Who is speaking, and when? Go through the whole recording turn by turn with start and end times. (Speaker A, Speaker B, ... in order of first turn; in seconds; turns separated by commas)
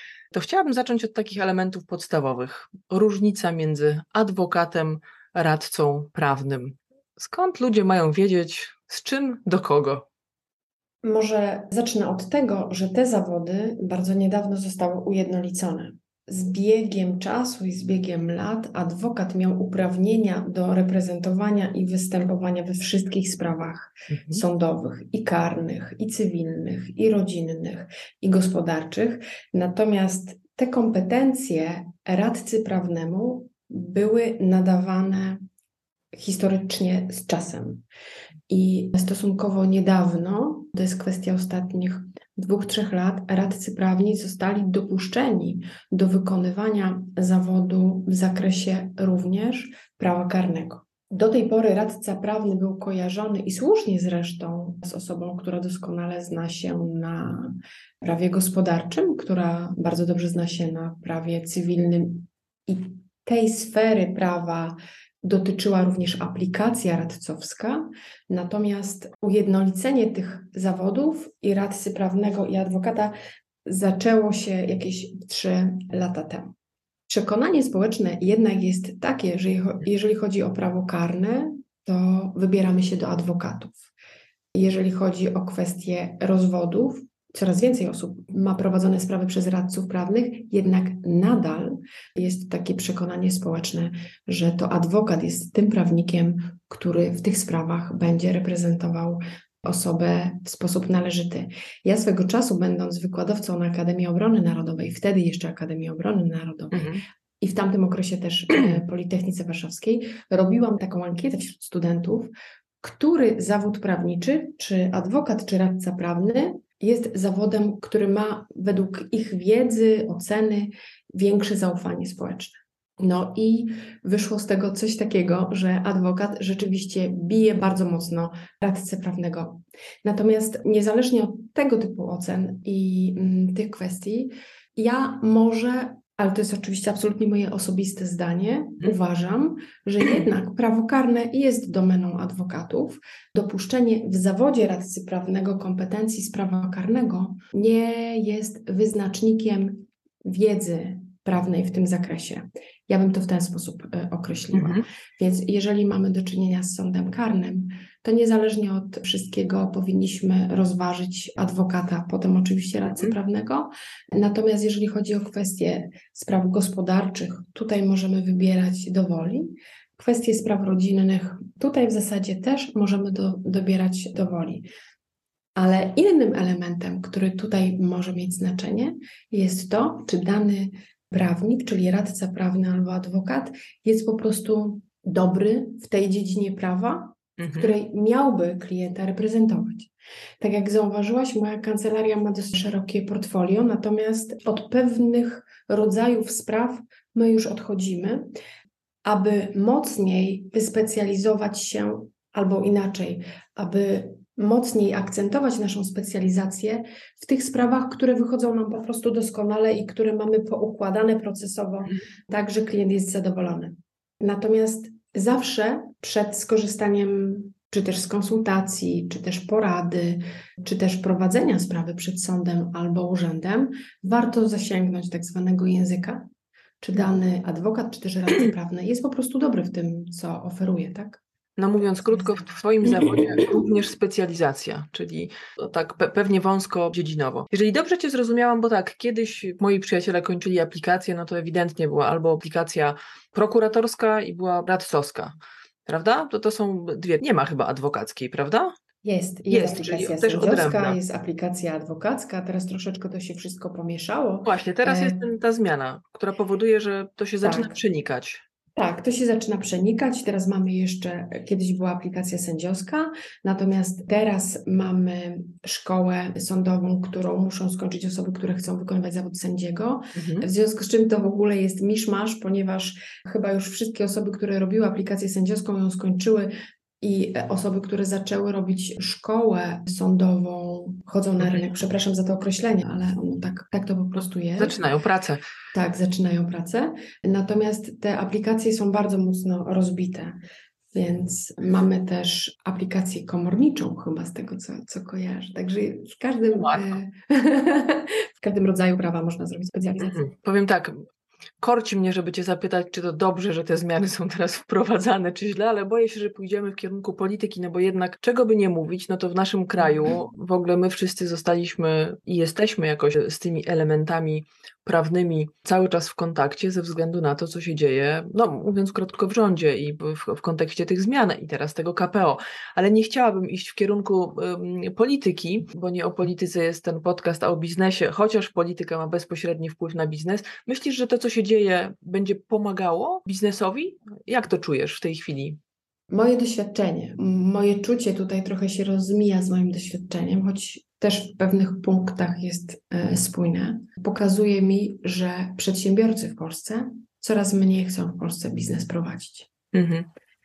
Speaker A: 0.3-10.1, Speaker B: 11.0-35.4, Speaker A: 24.1-24.4, Speaker B: 36.1-37.8, Speaker B: 38.5-73.1, Speaker B: 73.7-76.5, Speaker B: 77.1-83.9, Speaker B: 84.5-112.3, Speaker A: 106.7-107.0, Speaker B: 112.8-174.7, Speaker A: 154.5-154.8, Speaker B: 175.6-198.3, Speaker A: 187.4-187.7, Speaker B: 199.0-226.2, Speaker B: 226.8-231.2, Speaker A: 231.6-248.8, Speaker B: 249.0-255.2, Speaker A: 249.5-251.0, Speaker A: 254.4-258.4, Speaker B: 257.4-257.8, Speaker B: 258.8-284.8, Speaker A: 270.1-270.5, Speaker A: 284.6-285.4, Speaker B: 285.7-290.4, Speaker B: 290.9-300.2, Speaker A: 296.5-296.9, Speaker A: 300.0-301.0, Speaker A: 301.6-335.6, Speaker B: 336.1-349.5, Speaker A: 349.7-350.1